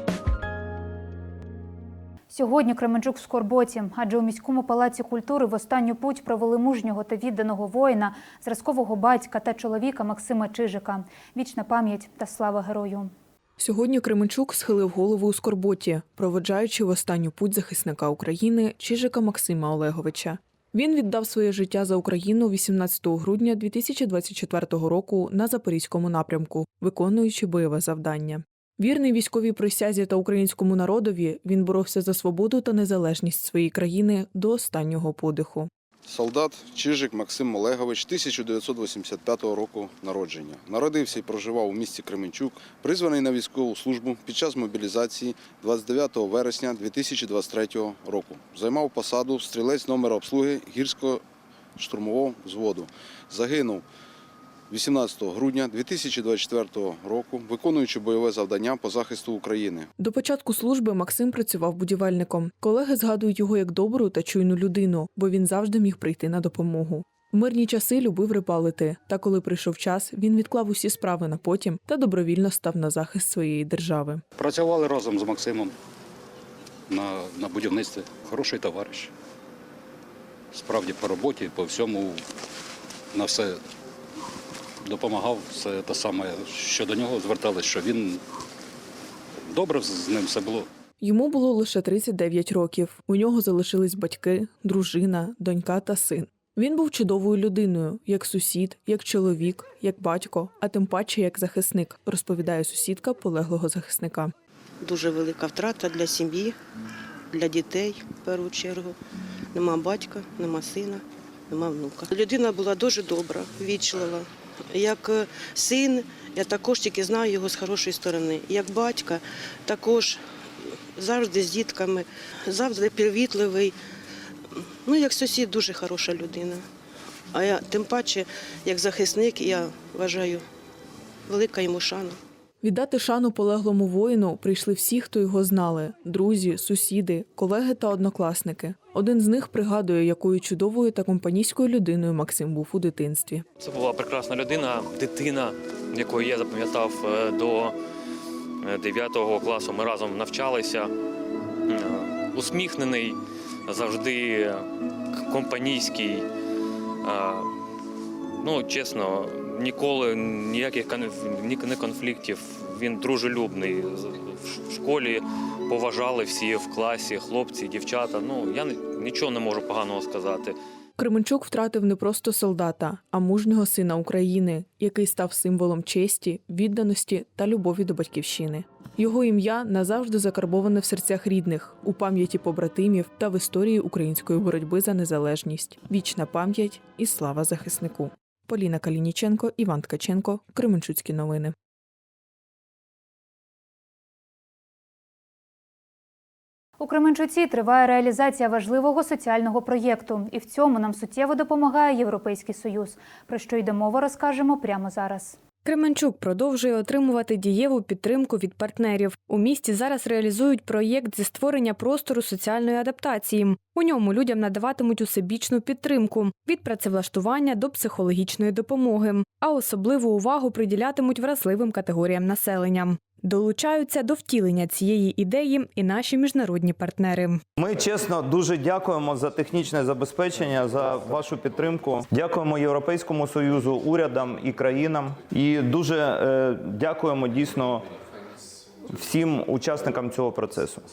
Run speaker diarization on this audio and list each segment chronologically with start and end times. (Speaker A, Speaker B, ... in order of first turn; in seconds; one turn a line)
Speaker A: 2.3-13.1
Speaker B: 13.6-35.7
Speaker C: 36.1-51.2
Speaker C: 51.8-53.8
Speaker C: 54.7-59.9
Speaker B: 60.0-74.2
Speaker D: 74.3-75.7
Speaker D: 76.9-79.1
Speaker D: 80.5-82.2
Speaker D: 83.1-83.6
Speaker D: 84.8-88.2
Speaker D: 89.5-90.7
Speaker B: 91.0-104.3
Speaker E: 104.8-106.5
Speaker E: 107.3-109.0
Speaker E: 109.5-120.2
Speaker E: 120.9-123.7
Speaker E: 124.8-126.6
Speaker E: 127.3-130.4
Speaker E: 131.3-132.2
Speaker B: 132.6-143.4
Speaker F: 143.6-147.7
Speaker F: 148.6-150.9
Speaker F: 151.7-156.2
Speaker F: 157.0-157.5
Speaker F: 158.4-170.6
Speaker B: 171.0-191.5
Speaker A: 196.8-205.3
Speaker G: 205.6-227.4
Speaker H: 227.6-237.8
Speaker H: 238.9-240.8